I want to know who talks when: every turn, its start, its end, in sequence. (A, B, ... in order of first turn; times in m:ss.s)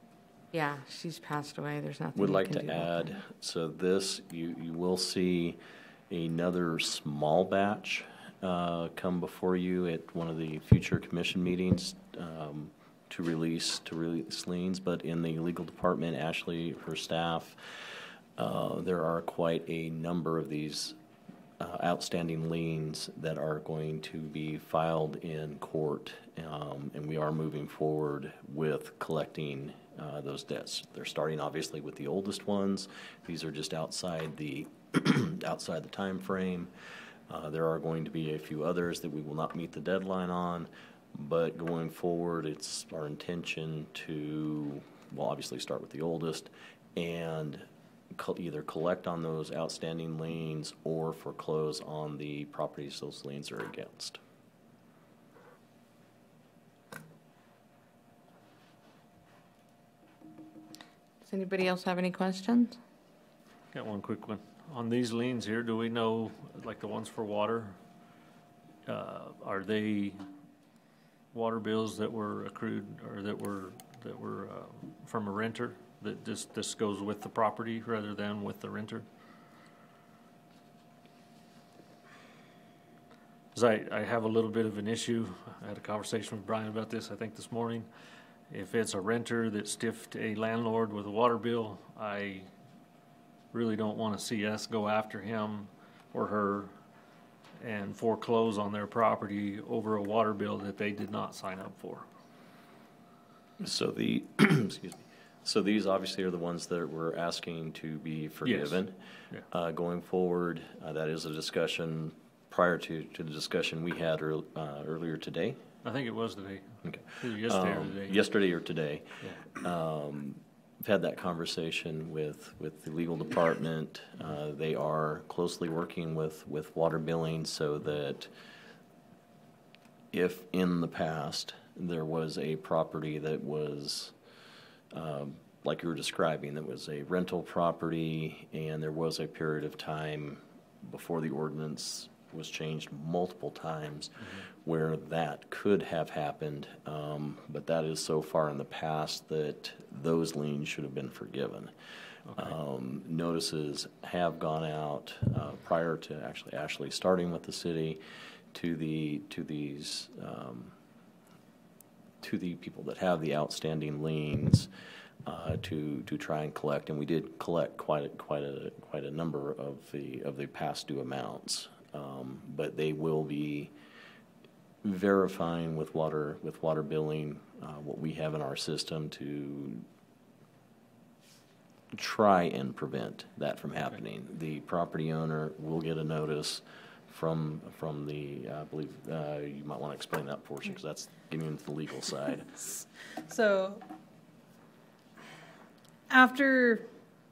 0:00.5-0:03.1 A
0:02.1-0:05.6 B
0:06.1-0:21.0 B
0:21.6-0:36.7 B
0:37.3-0:54.2 B
1:01.2-1:02.8 A
1:03.7-1:07.8 C
1:08.8-1:10.2 C
1:11.3-1:19.0 C
1:23.5-1:27.9 C
1:28.5-1:32.5 C
1:33.5-1:36.7 C
1:37.6-1:42.1 C
1:43.6-1:55.6 B
1:48.4-1:49.4 C
1:55.8-1:58.2 C
1:56.8-2:08.3 B
2:10.1-2:14.1 B
2:14.9-2:31.7 B
2:32.3-2:32.6 C
2:32.3-2:38.0 B
2:38.5-2:40.7 B
2:42.2-2:44.7 B
2:45.2-2:53.7 B
2:54.8-2:59.8 B
3:01.9-3:12.5 B
3:12.6-3:13.8 D
3:16.1-3:16.9 D